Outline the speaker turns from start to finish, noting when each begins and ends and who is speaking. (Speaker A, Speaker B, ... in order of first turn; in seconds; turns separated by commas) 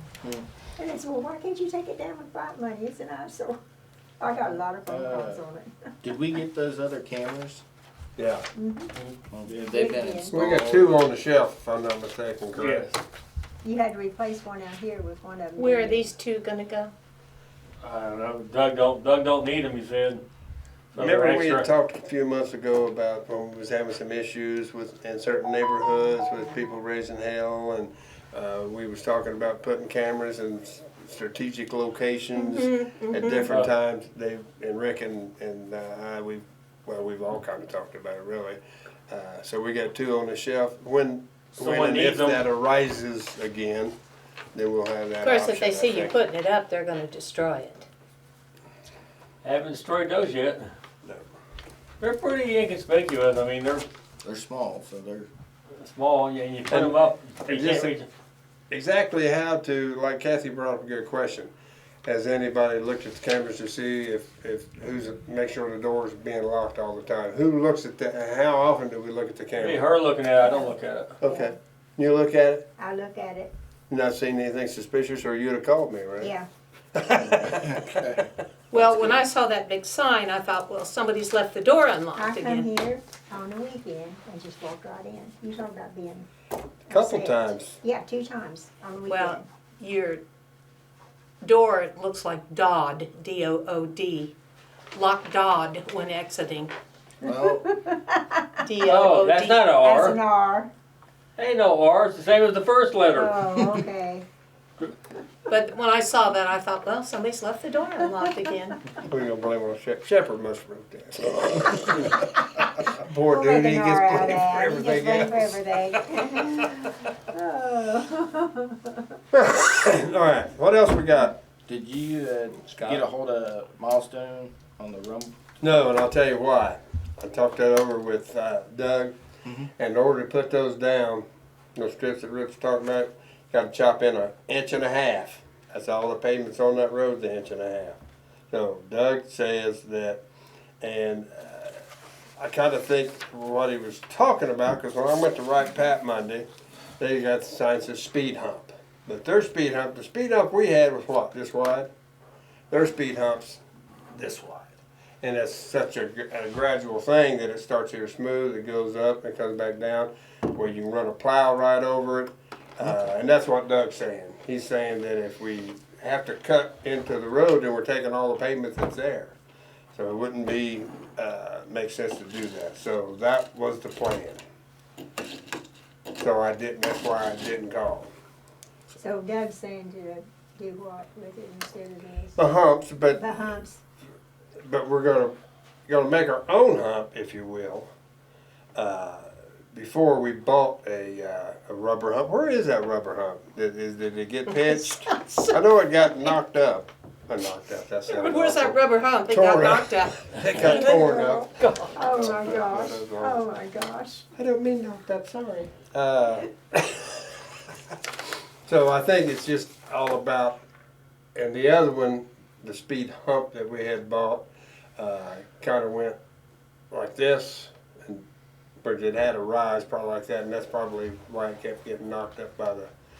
Speaker A: 0.8-3.6, Speaker A: 4.2-5.7, Speaker B: 4.9-5.4, Speaker B: 6.0-7.6, Speaker C: 8.2-8.4, Speaker A: 8.5-8.9, Speaker B: 9.3-11.1, Speaker A: 9.6-10.3, Speaker C: 10.3-12.9, Speaker D: 12.5-12.9, Speaker A: 13.6-16.1, Speaker E: 15.6-16.9, Speaker D: 17.8-20.2, Speaker D: 20.9-21.7, Speaker C: 21.0-43.9, Speaker E: 32.4-33.4, Speaker D: 41.6-42.4, Speaker C: 44.5-46.1, Speaker E: 45.2-47.9, Speaker D: 49.4-50.7, Speaker D: 52.0-53.8, Speaker B: 54.2-55.3, Speaker D: 55.8-58.1, Speaker C: 56.7-57.9, Speaker C: 58.7-61.5, Speaker C: 62.0-69.8, Speaker D: 69.6-71.1, Speaker A: 70.4-71.5, Speaker C: 71.2-72.7, Speaker A: 72.8-73.5, Speaker C: 73.9-76.3, Speaker A: 76.2-76.5, Speaker C: 77.0-79.2, Speaker E: 78.7-82.7, Speaker A: 82.2-86.3, Speaker A: 86.9-89.5, Speaker C: 86.9-87.8, Speaker E: 89.0-90.2, Speaker E: 91.4-94.3, Speaker E: 94.9-96.7, Speaker B: 97.2-97.6, Speaker A: 97.6-98.4, Speaker E: 98.6-99.6, Speaker D: 98.8-100.2, Speaker A: 99.8-100.7, Speaker D: 101.4-103.8, Speaker A: 103.1-104.2, Speaker E: 105.5-108.8, Speaker C: 109.0-112.3, Speaker C: 112.8-115.8, Speaker A: 113.3-118.9, Speaker C: 119.3-121.4, Speaker B: 121.7-125.3, Speaker C: 122.7-123.0, Speaker C: 125.6-129.1, Speaker C: 129.8-138.0, Speaker C: 138.5-140.2, Speaker C: 140.8-141.8, Speaker C: 142.4-146.5, Speaker C: 147.0-151.9, Speaker C: 152.7-153.6, Speaker C: 154.1-169.4, Speaker C: 169.9-174.4, Speaker C: 176.2-178.1, Speaker A: 178.9-182.4, Speaker C: 182.3-183.5, Speaker A: 183.1-183.8, Speaker C: 184.6-185.3, Speaker C: 185.9-187.9, Speaker C: 188.7-203.4, Speaker E: 194.5-195.6, Speaker E: 198.1-201.1, Speaker A: 200.7-204.2, Speaker D: 201.6-201.9, Speaker C: 204.3-207.3, Speaker C: 208.7-210.6, Speaker C: 211.3-214.4, Speaker C: 215.0-216.2, Speaker C: 216.9-218.2, Speaker C: 218.8-222.9